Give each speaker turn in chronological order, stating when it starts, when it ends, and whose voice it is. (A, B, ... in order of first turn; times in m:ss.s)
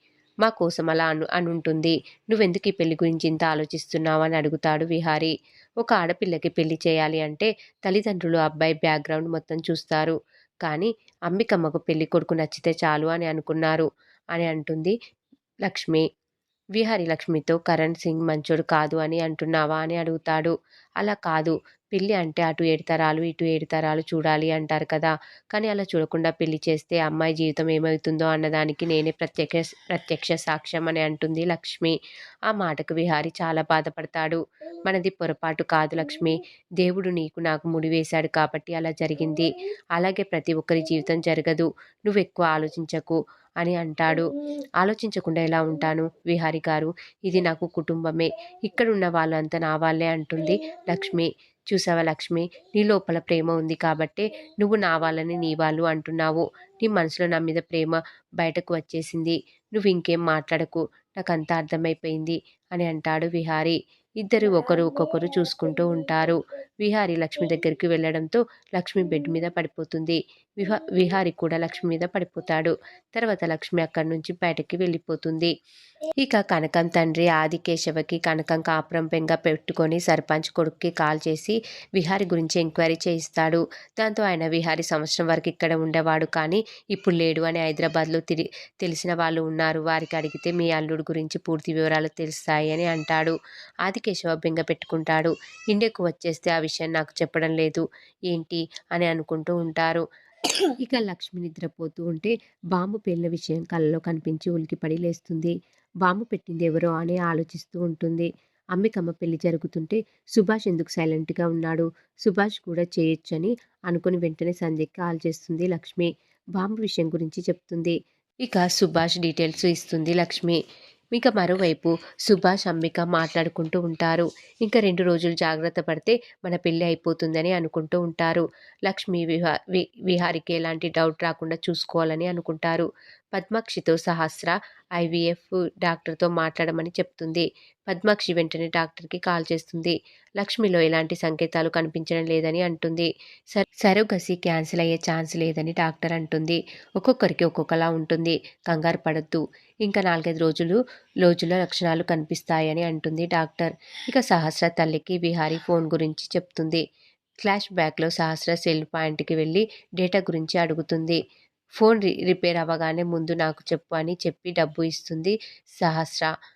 0:00.4-0:14.9 A
0:15.6-0:16.0 A
0:16.8-0:32.0 A
0:32.5-0:44.3 A
0:44.8-1:15.5 A
1:16.2-1:40.0 A
1:40.8-1:45.5 A
1:46.0-2:00.6 A
2:01.1-2:36.8 A
2:37.4-2:41.2 A
2:41.8-2:46.3 A